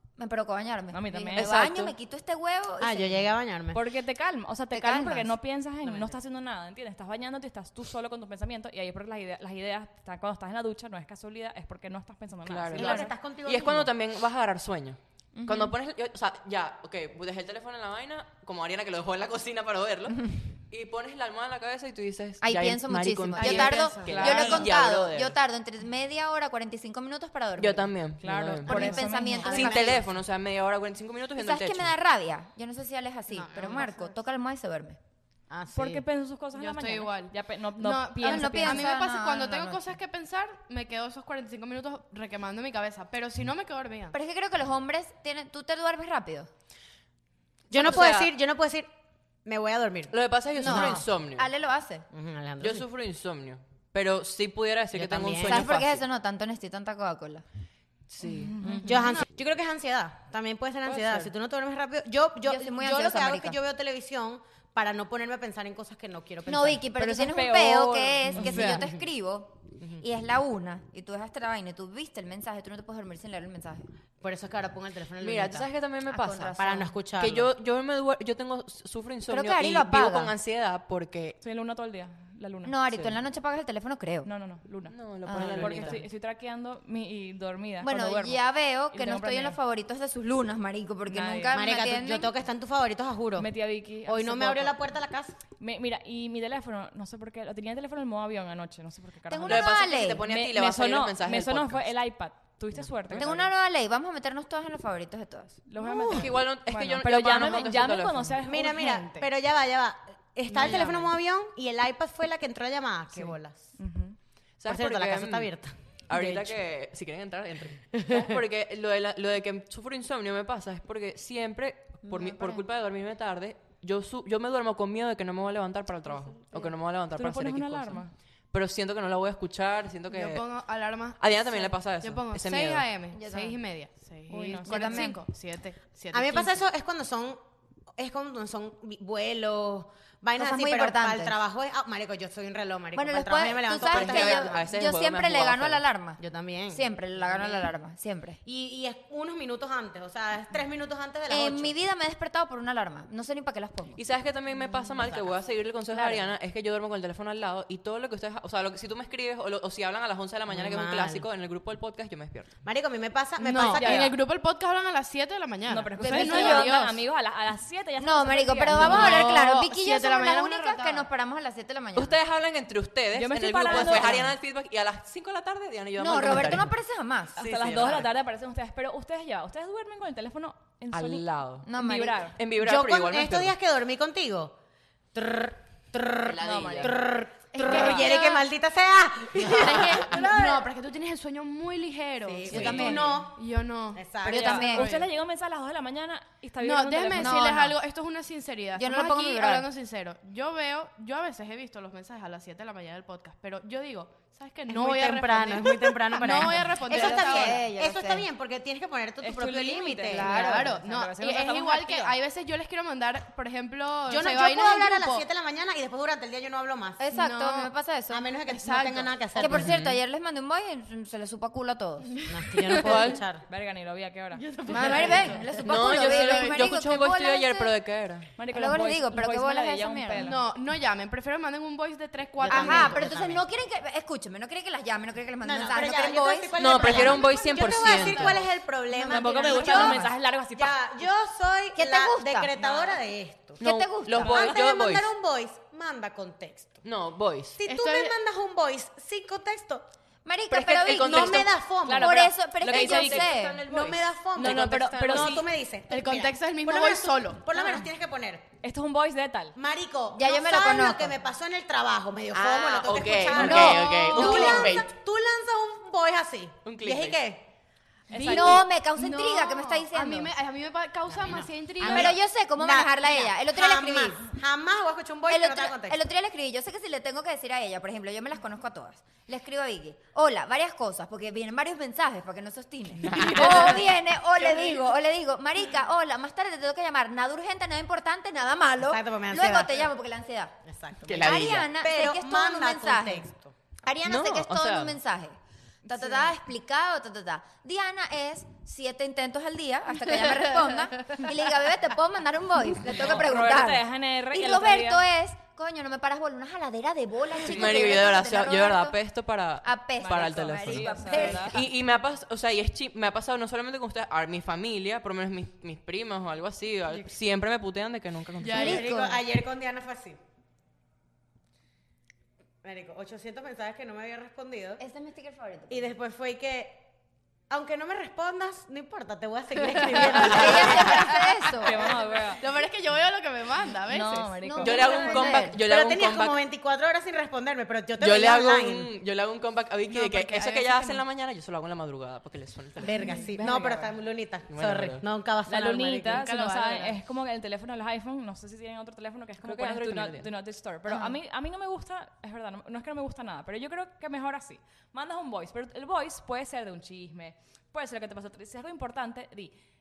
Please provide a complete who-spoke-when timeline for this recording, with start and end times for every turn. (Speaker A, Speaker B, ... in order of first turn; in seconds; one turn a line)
Speaker A: 0.2-3.3
Speaker B: 0.9-1.5
Speaker C: 1.4-1.9
Speaker D: 2.8-3.8
Speaker B: 3.7-13.1
Speaker A: 4.7-5.3
Speaker D: 5.8-6.1
Speaker C: 12.5-25.4
Speaker D: 12.7-13.9
Speaker A: 15.3-15.8
Speaker A: 22.4-27.9
Speaker E: 23.4-24.6
Speaker D: 24.3-24.6
Speaker C: 27.6-31.9
Speaker B: 28.2-29.7
Speaker A: 28.6-30.0
Speaker D: 29.4-30.1
Speaker A: 31.4-35.0
Speaker E: 33.3-34.2
Speaker D: 35.5-36.0
Speaker B: 35.7-38.9
Speaker E: 36.5-44.1
Speaker A: 38.2-39.8
Speaker A: 44.1-46.5
Speaker D: 47.7-48.9
Speaker C: 47.7-48.3
Speaker D: 49.5-50.2
Speaker C: 50.1-51.5
Speaker E: 50.6-50.9
Speaker A: 50.6-52.1
Speaker D: 52.1-52.9
Speaker C: 52.6-56.0
Speaker D: 54.9-55.7
Speaker A: 55.4-57.4
Speaker C: 58.1-58.6
Speaker B: 58.5-59.1
Speaker D: 58.9-66.8
Speaker E: 58.9-59.2
Speaker C: 60.9-61.3
Speaker A: 62.5-63.6
Speaker A: 66.5-73.9
Speaker B: 67.0-68.8
Speaker D: 74.2-75.7
Speaker C: 75.2-81.4
Speaker A: 76.1-76.8
Speaker D: 76.6-77.5
Speaker A: 79.3-80.3
Speaker B: 81.4-82.8
Speaker A: 82.7-84.3
Speaker C: 82.9-83.2
Speaker B: 84.2-85.0
Speaker C: 84.9-86.1
Speaker A: 85.3-85.6
Speaker D: 85.3-86.0
Speaker B: 85.6-89.6
Speaker A: 87.8-92.3
Speaker B: 91.1-91.6
Speaker D: 91.5-93.5
Speaker B: 93.4-94.8
Speaker D: 94.0-95.4
Speaker B: 95.6-103.3
Speaker A: 99.3-100.3
Speaker C: 99.5-101.9
Speaker C: 103.1-103.5
Speaker A: 103.2-106.2
Speaker B: 105.7-109.2
Speaker D: 105.8-106.3
Speaker C: 106.1-108.4
Speaker D: 108.4-113.8
Speaker B: 110.5-111.0
Speaker C: 110.8-111.1
Speaker B: 113.1-114.2
Speaker C: 114.6-115.6
Speaker D: 114.7-116.5
Speaker C: 116.1-132.9
Speaker D: 118.0-118.2
Speaker A: 122.0-122.6
Speaker B: 127.1-128.1
Speaker E: 130.1-136.6
Speaker A: 133.1-133.6
Speaker B: 134.3-135.1
Speaker A: 134.3-135.2
Speaker D: 136.1-137.4
Speaker D: 138.0-144.7
Speaker A: 140.4-141.4
Speaker A: 142.9-148.4
Speaker C: 143.8-145.8
Speaker D: 146.2-147.7
Speaker D: 148.4-151.7
Speaker A: 151.3-154.0
Speaker C: 154.0-162.5
Speaker D: 154.6-155.4
Speaker A: 155.9-156.3
Speaker D: 160.5-161.3
Speaker D: 162.6-164.1
Speaker E: 163.4-167.0
Speaker B: 163.7-164.1
Speaker B: 165.7-169.3
Speaker A: 166.0-166.7
Speaker A: 168.0-172.2
Speaker E: 168.8-171.1
Speaker C: 171.9-176.7
Speaker B: 173.1-174.3
Speaker D: 173.7-174.3
Speaker A: 173.8-174.3
Speaker A: 176.0-177.4
Speaker C: 177.4-178.1
Speaker B: 177.4-182.3
Speaker C: 180.9-181.7
Speaker A: 181.7-182.3
Speaker C: 182.3-183.6
Speaker D: 182.6-184.6
Speaker D: 185.1-190.8
Speaker C: 186.2-187.0
Speaker B: 186.4-187.0
Speaker E: 187.5-188.5
Speaker B: 187.5-188.1
Speaker E: 189.3-194.1
Speaker D: 192.2-193.4
Speaker A: 192.4-193.2
Speaker C: 192.5-192.9
Speaker D: 193.9-194.9
Speaker A: 194.2-194.9
Speaker B: 194.2-197.4
Speaker E: 196.6-207.7
Speaker A: 197.2-197.8
Speaker A: 198.8-199.7
Speaker D: 204.7-210.7
Speaker A: 206.9-208.3
Speaker B: 209.2-212.2
Speaker A: 210.1-210.7
Speaker E: 210.4-215.2
Speaker D: 214.1-217.0
Speaker A: 217.0-218.2
Speaker E: 217.1-217.7
Speaker D: 218.1-219.8
Speaker E: 218.4-219.4
Speaker A: 219.4-222.2
Speaker C: 219.4-220.0
Speaker E: 222.2-222.7
Speaker D: 222.3-223.4
Speaker C: 222.8-223.2
Speaker B: 222.9-225.2
Speaker E: 224.4-226.6
Speaker A: 224.7-227.8
Speaker D: 224.7-225.4
Speaker C: 225.7-228.3
Speaker B: 228.4-230.4
Speaker A: 228.5-230.3
Speaker E: 230.2-233.1
Speaker D: 232.4-233.4
Speaker A: 232.5-237.6
Speaker D: 235.4-243.6
Speaker C: 236.6-238.4
Speaker B: 237.6-238.4
Speaker B: 238.9-240.8
Speaker A: 239.2-240.0
Speaker C: 239.7-240.1
Speaker A: 241.8-242.5
Speaker A: 243.6-244.5
Speaker C: 243.6-245.1
Speaker D: 244.2-246.8
Speaker C: 246.8-247.6
Speaker D: 247.6-249.9
Speaker E: 247.6-248.2
Speaker A: 250.2-253.6
Speaker C: 250.5-251.5
Speaker D: 250.9-252.3
Speaker B: 251.8-253.3
Speaker C: 252.6-255.4
Speaker D: 253.7-258.4
Speaker B: 254.3-255.4
Speaker E: 255.8-257.7
Speaker B: 258.6-259.6
Speaker D: 259.6-267.5
Speaker A: 260.2-261.2
Speaker C: 262.3-264.9
Speaker A: 263.3-264.9
Speaker C: 266.6-267.2
Speaker B: 268.1-268.6
Speaker E: 268.1-272.2
Speaker A: 268.3-270.3
Speaker D: 271.1-276.0
Speaker A: 271.8-274.3
Speaker A: 275.3-290.5
Speaker C: 283.0-283.9
Speaker D: 283.2-283.8
Speaker C: 284.5-284.8
Speaker D: 288.8-289.9
Speaker D: 290.6-293.6
Speaker C: 291.0-291.7
Speaker A: 291.2-293.2
Speaker A: 293.8-309.0
Speaker C: 294.1-295.0
Speaker B: 303.1-305.1
Speaker C: 307.4-318.9
Speaker A: 309.6-311.7
Speaker B: 310.0-311.5
Speaker D: 311.0-311.5
Speaker E: 318.4-318.8
Speaker A: 318.5-319.2
Speaker D: 318.5-320.2
Speaker D: 322.6-324.8
Speaker A: 324.8-325.9
Speaker D: 325.7-326.8
Speaker D: 327.5-331.1
Speaker E: 329.8-330.2
Speaker A: 330.1-331.9
Speaker C: 330.3-330.7
Speaker B: 331.5-332.4
Speaker E: 331.9-335.0
Speaker B: 333.9-335.1
Speaker A: 334.4-335.6
Speaker C: 334.6-336.4
Speaker D: 335.5-338.9
Speaker C: 338.0-344.0
Speaker E: 339.8-341.0
Speaker D: 342.8-346.2
Speaker C: 344.5-345.0
Speaker B: 345.5-359.5
Speaker E: 346.1-347.0
Speaker C: 349.4-350.3
Speaker A: 350.9-351.2